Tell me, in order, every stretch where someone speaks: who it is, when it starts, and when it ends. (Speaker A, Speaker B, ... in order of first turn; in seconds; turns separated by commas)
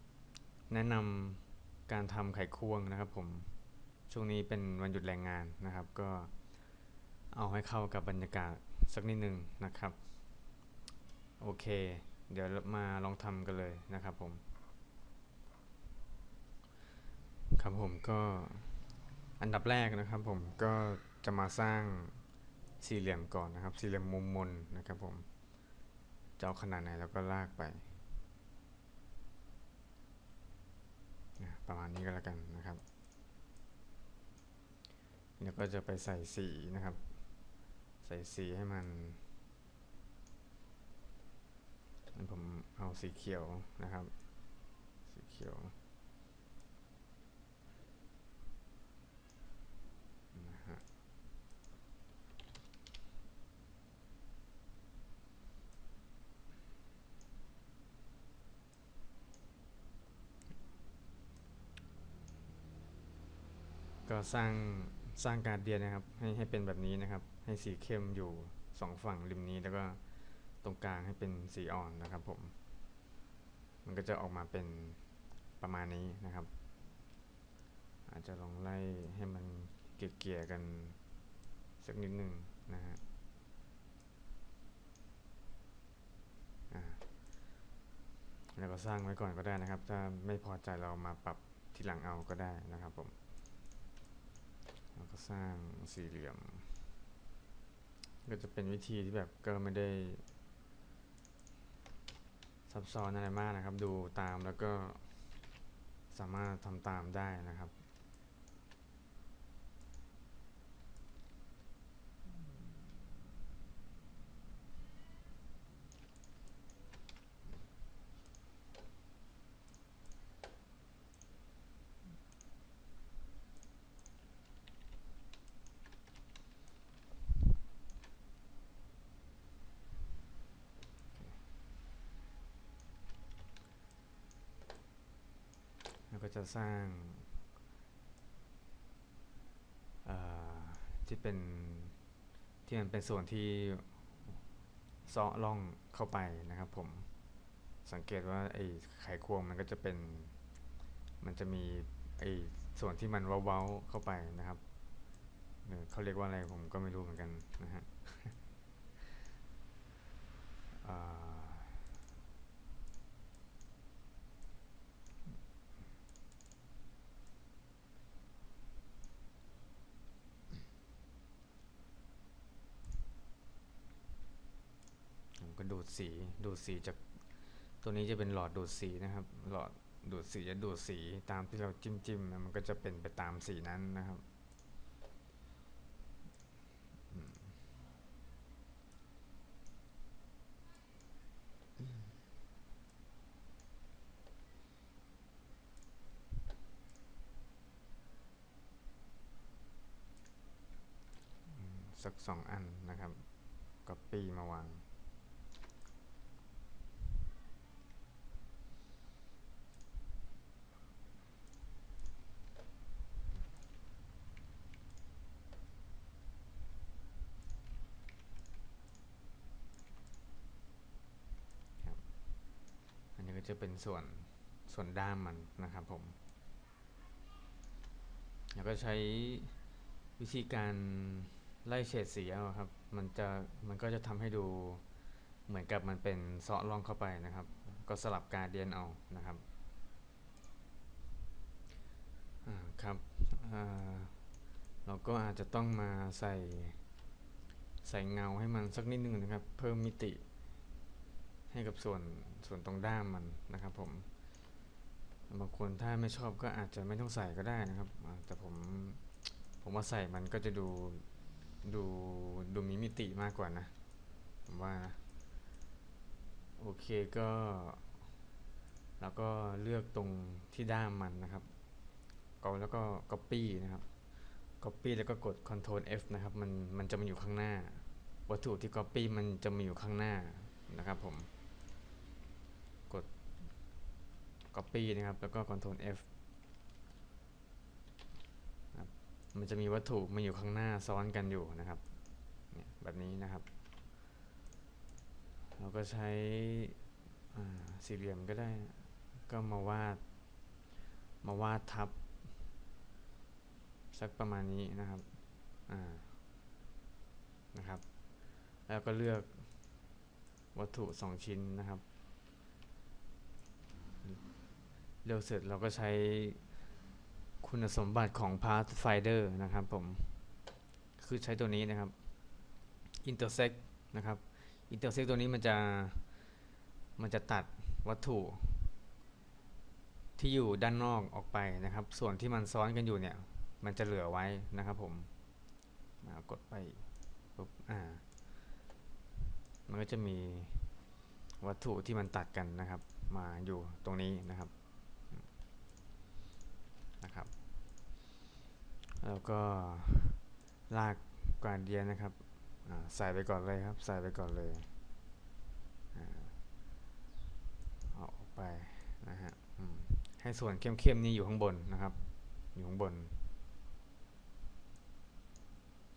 Speaker A: 0.7-6.7, Speaker A: 7.3-10.1, Speaker A: 11.4-14.4, Speaker A: 17.5-22.3, Speaker A: 22.8-25.3, Speaker A: 26.4-28.0, Speaker A: 31.4-32.8, Speaker A: 35.4-39.2, Speaker A: 42.1-44.1, Speaker A: 45.0-45.7, Speaker A: 50.3-50.8, Speaker A: 64.0-72.5, Speaker A: 73.8-76.5, Speaker A: 78.1-81.0, Speaker A: 81.8-83.0, Speaker A: 86.7-87.0, Speaker A: 88.5-93.2, Speaker A: 94.9-96.8, Speaker A: 98.2-100.2, Speaker A: 102.7-105.4, Speaker A: 106.1-107.7, Speaker A: 131.1-131.4, Speaker A: 136.1-137.3, Speaker A: 140.0-142.0, Speaker A: 142.6-144.4, Speaker A: 145.0-147.2, Speaker A: 147.8-150.4, Speaker A: 151.2-154.6, Speaker A: 155.6-158.4, Speaker A: 160.8-161.8, Speaker A: 175.4-184.2, Speaker A: 187.1-187.6, Speaker A: 201.5-204.8, Speaker A: 223.1-226.2, Speaker A: 228.5-229.6, Speaker A: 230.2-234.8, Speaker A: 235.4-239.4, Speaker A: 242.4-244.2, Speaker A: 244.8-246.9, Speaker A: 247.8-250.2, Speaker A: 251.5-254.1, Speaker A: 255.3-261.1, Speaker A: 261.6-263.8, Speaker A: 264.4-265.0, Speaker A: 266.6-268.1, Speaker A: 269.0-271.5, Speaker A: 272.4-281.3, Speaker A: 282.9-283.6, Speaker A: 284.5-286.1, Speaker A: 288.7-293.5, Speaker A: 295.6-296.8, Speaker A: 297.3-300.0, Speaker A: 301.2-302.2, Speaker A: 303.9-306.2, Speaker A: 307.5-309.8, Speaker A: 310.5-311.8, Speaker A: 314.0-314.3, Speaker A: 315.0-316.5, Speaker A: 317.4-320.2, Speaker A: 321.0-321.9, Speaker A: 323.0-326.4, Speaker A: 327.0-328.7, Speaker A: 330.1-335.1, Speaker A: 336.0-338.1, Speaker A: 339.6-340.8, Speaker A: 341.4-345.3, Speaker A: 347.0-347.3, Speaker A: 349.0-354.7, Speaker A: 355.9-356.4, Speaker A: 357.9-363.3